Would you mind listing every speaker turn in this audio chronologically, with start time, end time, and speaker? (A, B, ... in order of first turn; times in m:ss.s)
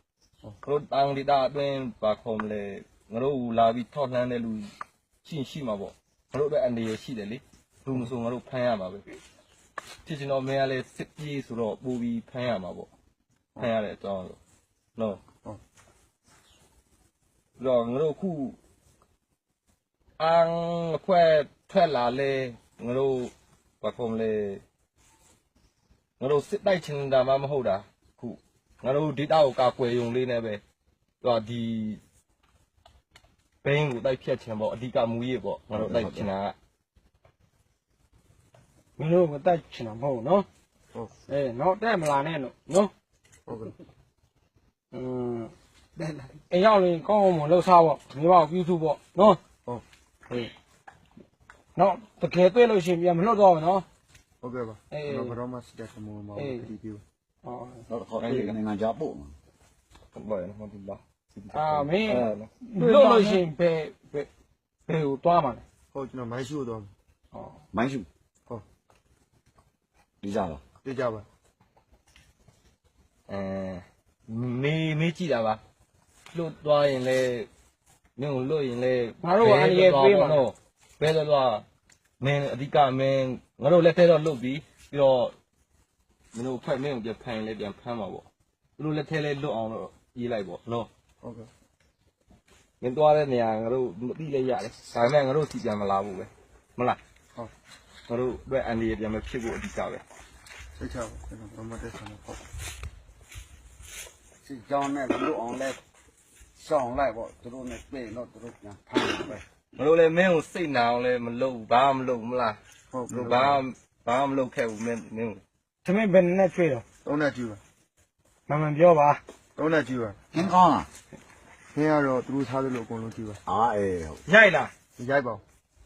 0:00.6-0:04.7 A
0:05.2-0:09.0 A
0:10.0-0:12.9 A
0:13.6-0:14.4 A
0:15.0-0:15.2 A
0:17.6-0:18.6 A
0:20.2-0:24.6 A
0:26.2-0:30.6 A
0:31.2-0:32.0 A
0:33.6-0:36.5 A
0:35.7-0:36.3 B
0:39.0-0:40.4 C
0:41.3-0:42.9 C
0:43.5-0:43.7 D
0:44.9-0:45.5 C
0:46.4-0:49.4 C
0:51.7-0:53.8 C
0:54.4-0:57.0 D
0:54.9-0:55.4 C
0:56.3-0:56.7 C
0:57.4-0:57.8 C
0:57.9-0:59.3 B
0:58.2-0:58.6 A
1:00.1-1:03.4 A
1:01.5-1:04.3 C
1:04.9-1:05.6 C
1:05.9-1:06.9 D
1:07.7-1:08.1 B
1:10.2-1:10.6 B
1:10.8-1:11.3 D
1:13.3-1:15.6 A
1:16.3-1:17.5 A
1:18.2-1:21.6 A
1:19.2-1:20.4 C
1:22.2-1:25.3 A
1:26.3-1:28.2 A
1:28.8-1:30.9 A
1:31.2-1:31.5 D
1:32.8-1:37.0 A
1:38.1-1:40.0 A
1:40.8-1:42.4 D
1:44.4-1:45.8 E
1:46.6-1:49.4 E
1:49.7-1:52.6 A
1:52.9-1:53.6 D
1:53.1-1:55.4 A
1:55.8-1:56.8 C
1:57.0-1:57.6 D
1:58.5-1:59.2 C
1:59.6-2:00.2 D
2:00.3-2:00.9 B
2:01.7-2:03.4 D
2:03.4-2:04.2 B
2:04.3-2:04.6 A
2:05.0-2:05.4 D